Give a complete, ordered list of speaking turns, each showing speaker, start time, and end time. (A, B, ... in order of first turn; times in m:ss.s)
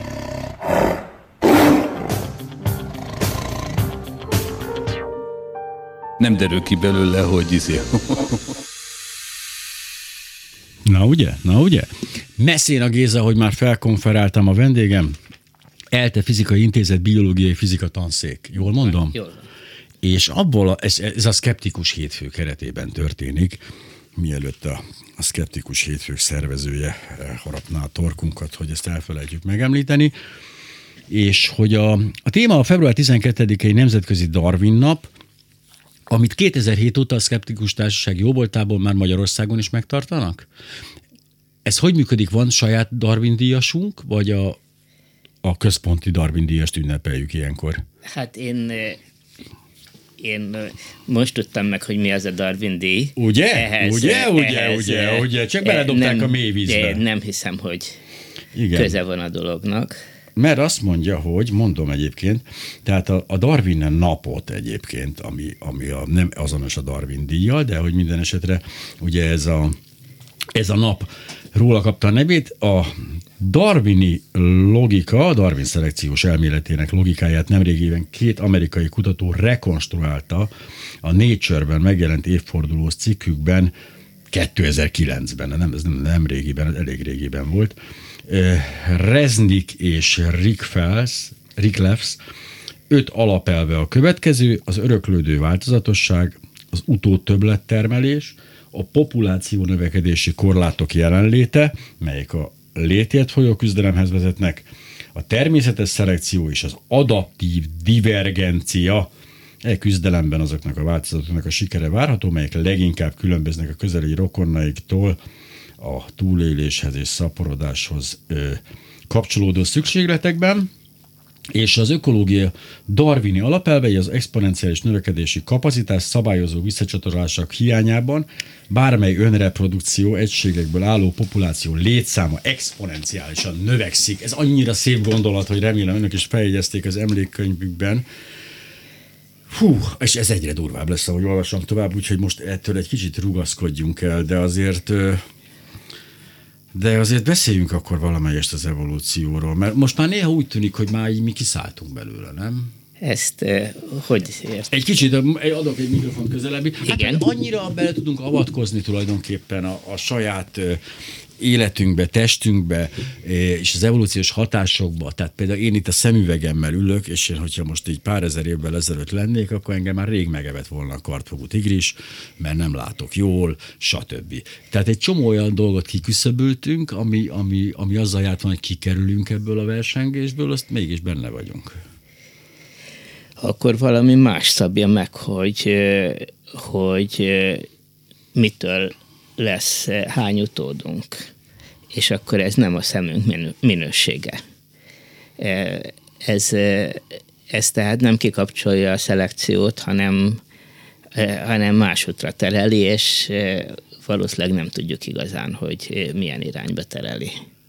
0:06.2-0:08.5 A
0:10.8-0:15.2 B
0:15.9-0:19.2 B
0:18.6-0:19.5 C
0:20.0-0:23.6 B
0:24.2-0:30.1 B
0:31.1-0:35.1 B
0:36.1-0:40.5 B
0:41.6-0:44.6 B
0:45.4-0:47.8 B
0:48.1-0:49.0 C
0:50.2-0:58.0 C
0:53.2-0:57.0 B
0:58.5-0:59.0 B
0:58.7-1:00.0 C
1:00.4-1:09.8 B
1:10.6-1:20.5 B
1:21.0-1:23.7 B
1:24.3-1:27.8 B
1:28.3-1:32.2 B
1:32.9-1:49.1 B
1:49.6-1:55.2 B
1:55.8-2:00.7 B
2:01.5-2:18.1 B
2:19.5-2:25.2 B
2:26.7-2:32.7 B
2:33.0-2:34.7 C
2:34.7-2:40.8 B
2:36.9-2:37.2 C
2:41.4-3:01.8 B
3:03.4-3:07.7 C
3:08.4-3:11.3 C
3:11.9-3:14.4 C
3:15.4-3:20.4 C
3:21.2-3:27.4 C